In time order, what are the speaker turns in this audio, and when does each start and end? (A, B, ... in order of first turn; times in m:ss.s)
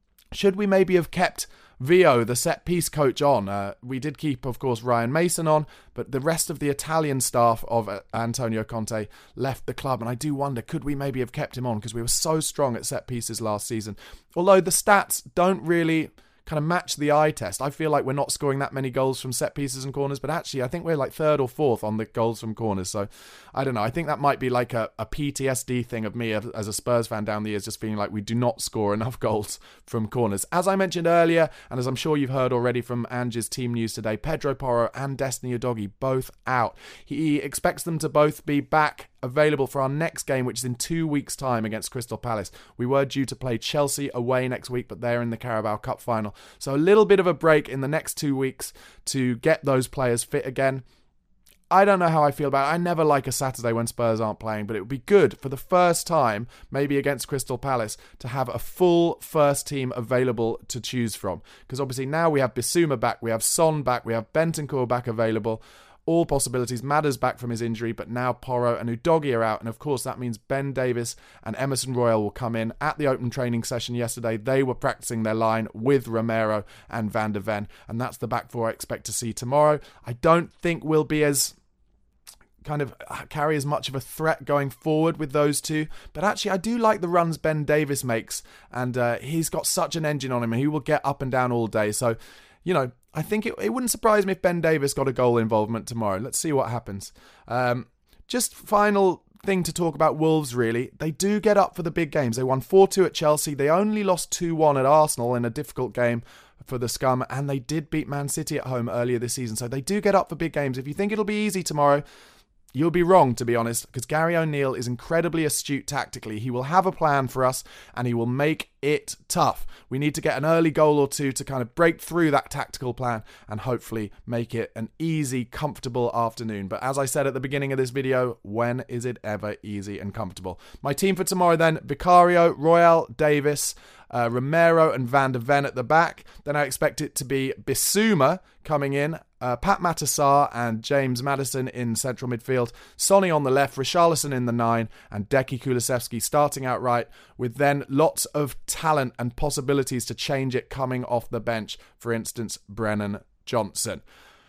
0:00.3-0:50.8 A
0:51.7-1:21.5 A
1:22.6-1:52.0 A
1:52.7-2:34.0 A